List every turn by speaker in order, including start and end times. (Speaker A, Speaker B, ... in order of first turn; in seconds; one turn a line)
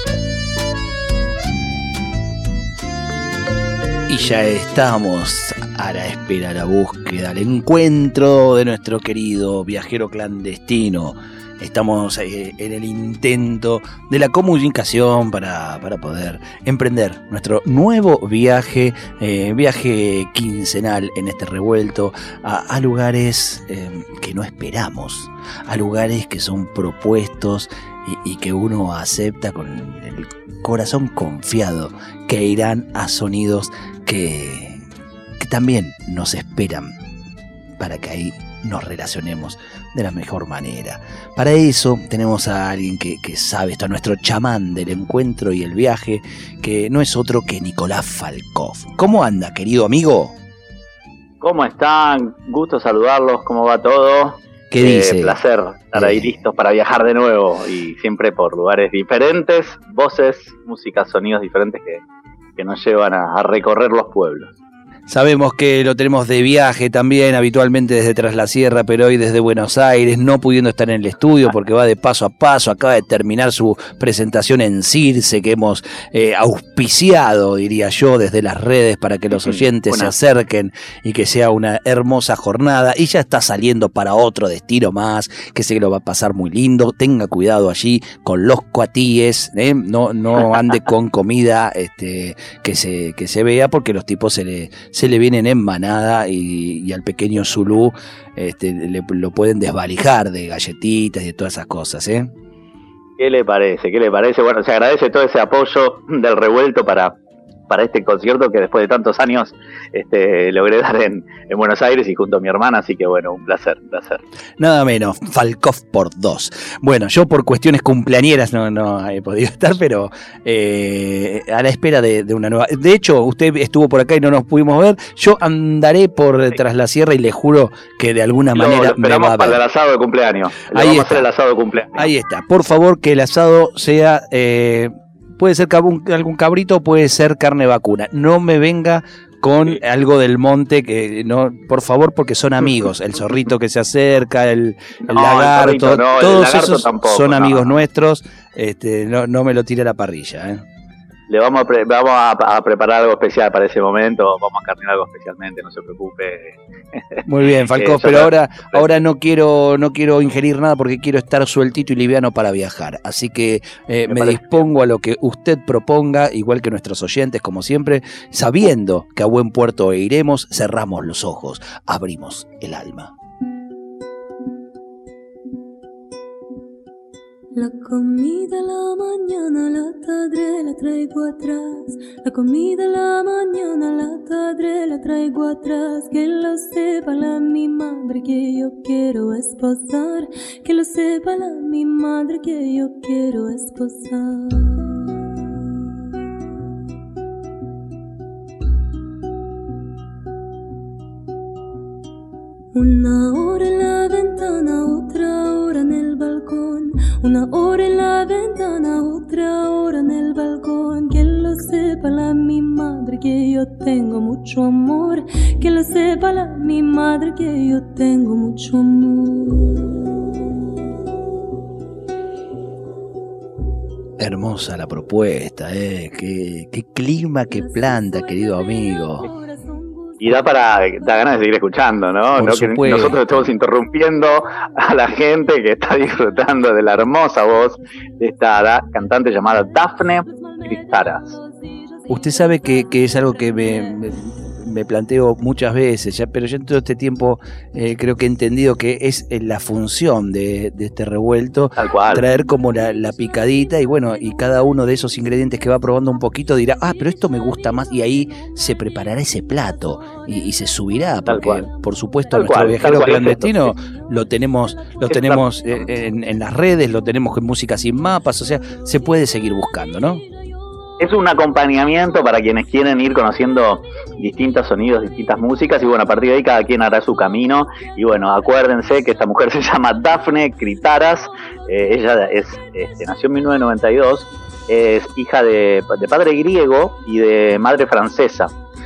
Speaker A: 4.1-34.8
Speaker A: 35.4-36.9
Speaker A: 37.8-50.4
Speaker B: 51.4-62.0
Speaker A: 54.7-55.4
Speaker A: 55.9-56.3
Speaker B: 62.6-64.5
Speaker A: 65.1-102.3
Speaker B: 79.3-80.1
Speaker B: 103.2-107.2
Speaker B: 107.7-114.2
Speaker A: 114.6-129.6
Speaker B: 128.5-132.1
Speaker A: 130.7-131.3
Speaker A: 132.0-150.6
Speaker B: 145.1-147.7
Speaker B: 151.3-157.2
Speaker A: 157.3-173.1
Speaker B: 157.8-158.9
Speaker B: 164.1-164.7
Speaker C: 177.6-195.3
Speaker C: 202.7-220.1
Speaker A: 224.2-229.3
Speaker C: 227.5-231.2
Speaker B: 230.2-241.4
Speaker A: 232.4-233.5
Speaker C: 241.7-242.1
Speaker A: 242.1-270.2
Speaker B: 251.8-252.2
Speaker B: 261.3-261.6
Speaker B: 262.3-263.7
Speaker B: 265.1-265.4
Speaker B: 271.0-288.5